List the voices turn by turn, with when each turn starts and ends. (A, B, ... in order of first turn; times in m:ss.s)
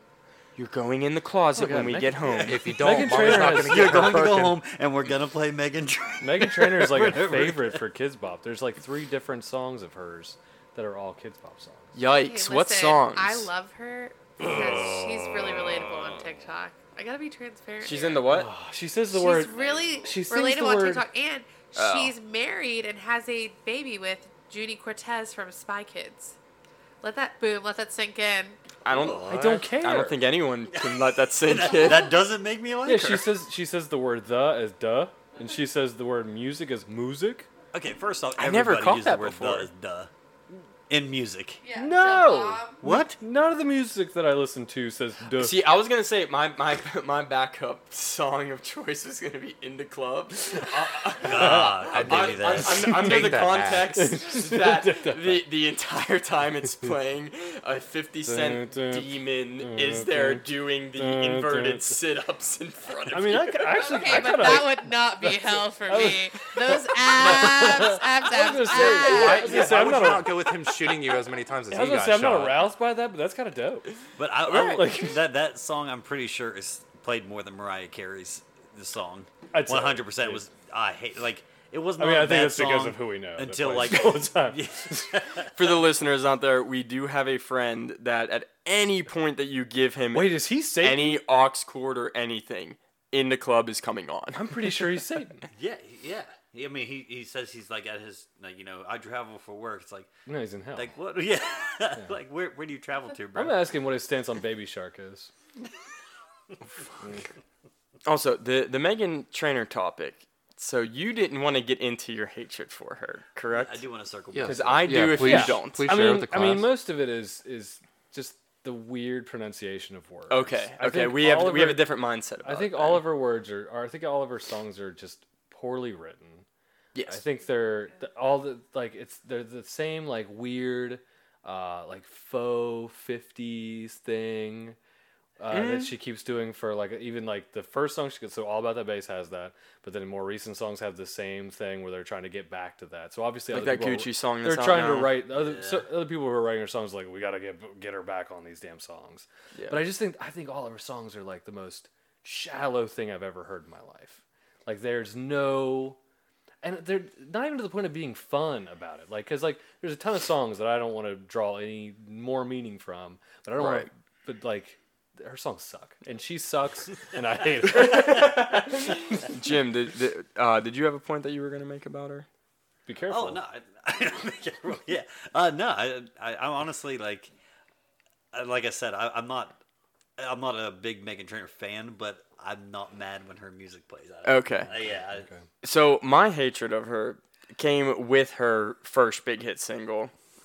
0:00.6-0:02.6 A
0:01.6-0:04.2 B
0:02.4-0:04.6 C
0:03.1-0:07.8 D
0:06.2-0:12.0 B
0:12.0-0:13.5 A
0:12.2-0:18.3 E
0:17.8-0:18.5 A
0:18.3-0:19.5 B
0:19.1-0:26.4 E
0:19.5-0:20.2 D
0:20.0-0:21.1 B
0:21.8-0:22.1 A
0:27.0-0:28.6 E
0:28.8-0:32.1 A
0:28.9-0:29.7 C
0:29.0-0:29.4 D
0:29.2-0:30.2 B
0:30.7-0:33.2 D
0:32.8-0:37.5 B
0:32.9-0:33.3 A
0:37.7-0:40.1 D
0:38.4-0:39.7 A
0:40.9-0:41.6 D
0:41.6-0:42.8 E
0:41.8-0:45.6 B
0:42.8-0:43.2 D
0:45.4-1:04.8 A
0:51.2-0:53.0 D
0:51.4-0:51.7 B
0:51.4-0:54.0 C
0:54.0-0:55.4 B
0:58.3-1:00.4 B
1:01.0-1:02.0 B
1:03.1-1:10.5 B
1:03.8-1:09.8 E
1:08.7-1:12.6 C
1:11.7-1:13.9 B
1:14.2-1:25.5 D
1:14.4-1:15.2 B
1:19.5-1:20.4 B
1:22.0-1:25.2 B
1:25.6-1:34.7 A
1:30.1-1:31.2 B
1:34.3-1:35.5 B
1:35.5-1:40.1 D
1:40.3-1:40.9 B
1:40.8-1:43.6 D
1:43.4-1:45.3 B
1:48.0-1:53.8 A
1:53.5-1:55.2 D
1:54.3-1:56.7 C
1:54.4-1:55.9 A
1:55.1-2:01.8 B
2:00.3-2:03.1 A
2:02.4-2:06.4 B
2:07.0-2:07.2 A
2:07.1-2:14.8 B
2:15.4-2:36.0 B
2:15.5-2:15.9 A
2:23.5-2:25.2 A
2:25.3-2:25.9 D
2:29.6-2:29.8 A
2:36.6-2:48.5 B
2:43.6-2:43.9 A
2:47.8-2:52.3 A
2:47.9-2:48.4 D
2:52.9-2:53.4 B
2:53.1-2:57.3 D
2:58.3-2:59.6 D
3:00.2-3:05.3 D
3:04.2-3:04.7 A
3:04.9-3:05.4 B
3:05.6-3:10.1 A